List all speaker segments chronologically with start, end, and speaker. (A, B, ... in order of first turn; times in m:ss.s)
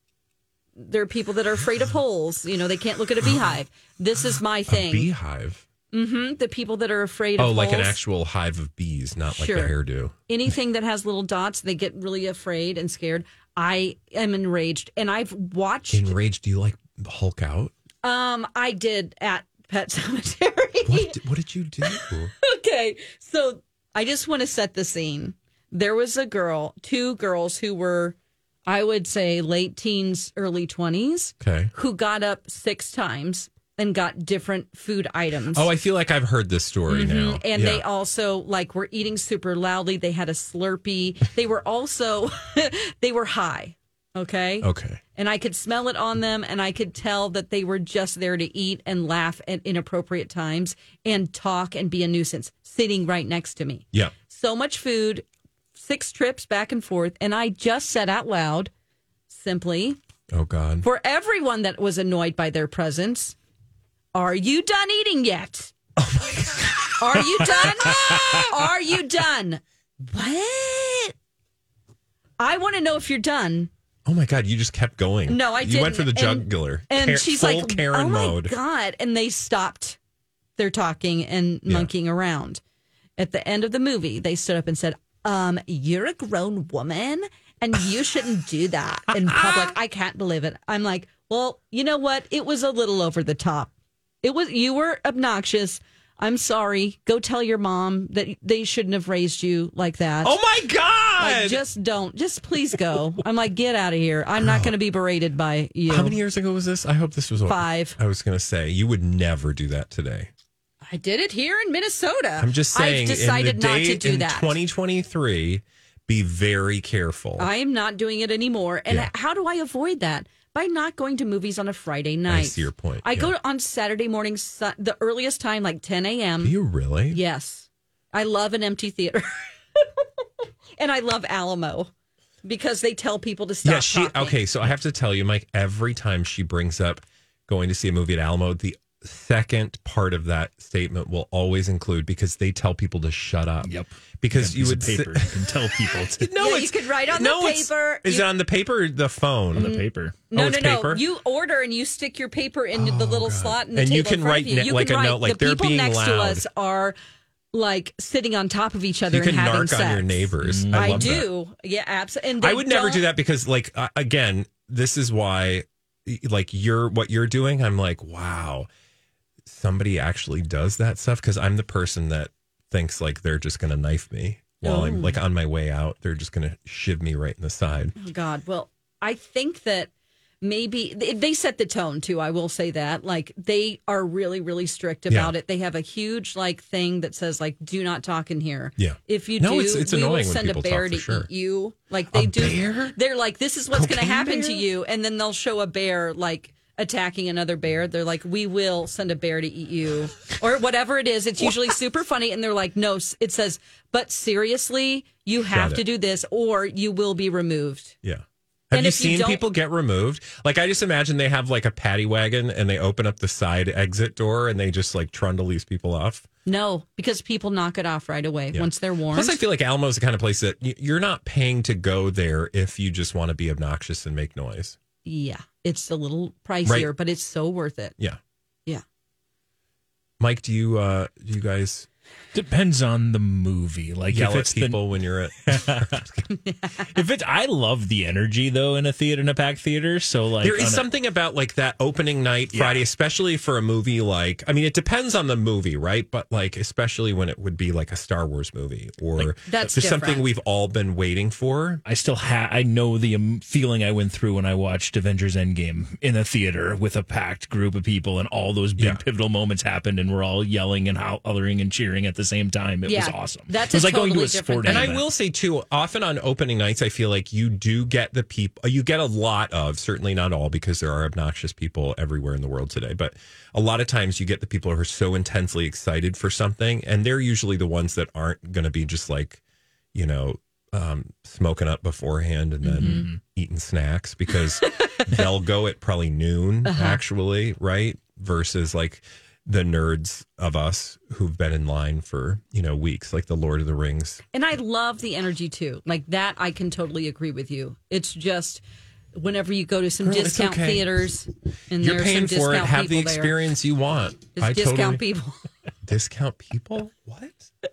0:00.8-0:05.1 A
0:04.7-0:05.6 B
0:05.9-0:08.0 A
0:07.4-0:10.1 B
0:09.3-0:09.7 A
0:10.3-0:16.1 A
0:15.9-0:17.7 B
0:18.0-0:21.2 A
0:20.8-0:22.3 B
0:21.8-0:28.2 A
0:28.7-0:35.7 A
0:31.4-0:31.7 B
0:35.5-0:37.8 B
0:36.9-0:58.7 A
0:44.6-0:45.0 B
0:59.3-1:00.0 A
1:00.3-1:00.8 B
1:00.8-1:03.4 A
1:04.1-1:05.7 A
1:06.0-1:08.5 B
1:07.0-1:11.1 A
1:12.4-1:13.7 A
1:14.0-1:18.6 B
1:15.3-1:20.0 A
1:20.6-1:22.6 A
1:23.2-1:33.7 A
1:29.1-1:29.7 B
1:34.2-1:40.3 A
1:40.2-1:41.6 B
1:41.2-1:46.2 A
1:44.4-1:44.7 B
1:45.9-1:50.3 B
1:47.5-1:48.0 A
1:50.9-1:54.6 A
1:52.4-1:57.5 B
1:57.4-2:06.5 A
2:02.3-2:03.3 B
2:06.4-2:07.2 B
2:07.1-2:10.2 A
2:10.8-2:11.9 A
2:12.4-2:14.7 A
2:13.6-2:29.8 B
2:23.6-2:26.3 C
2:26.4-2:28.3 A
2:29.5-2:30.2 C
2:29.6-2:36.9 A
2:30.3-2:31.0 B
2:32.7-2:36.4 B
2:37.5-2:43.0 A
2:39.1-2:41.3 B
2:40.4-2:41.2 C
2:42.4-2:48.7 B
2:49.4-2:57.9 B
2:54.6-2:55.2 A
2:58.0-2:59.9 A
3:00.4-3:27.9 A
3:05.1-3:05.3 B
3:08.8-3:11.3 B
3:12.1-3:13.0 B
3:13.7-3:14.6 B
3:25.4-3:25.8 B
3:28.0-3:36.2 B
3:28.7-3:29.4 A
3:36.4-3:39.4 A
3:38.5-3:44.8 B
3:45.0-3:47.9 A
3:46.6-3:46.9 B
3:50.2-3:51.9 B
3:52.3-3:54.8 C
3:54.1-3:56.2 B
3:55.4-3:56.0 C
3:56.3-3:56.9 A
3:56.9-4:00.9 C
4:00.4-4:11.8 B
4:09.5-4:10.2 A
4:11.8-4:25.0 C
4:22.8-4:24.9 A
4:24.6-4:39.4 B
4:39.9-4:54.2 B
4:42.6-4:43.0 A
4:42.8-4:43.2 C
4:46.6-4:47.0 A
4:54.3-4:58.6 A
4:59.1-5:03.3 A
5:00.0-5:01.0 B
5:01.8-5:05.0 B
5:04.4-5:05.4 A
5:05.8-5:07.5 B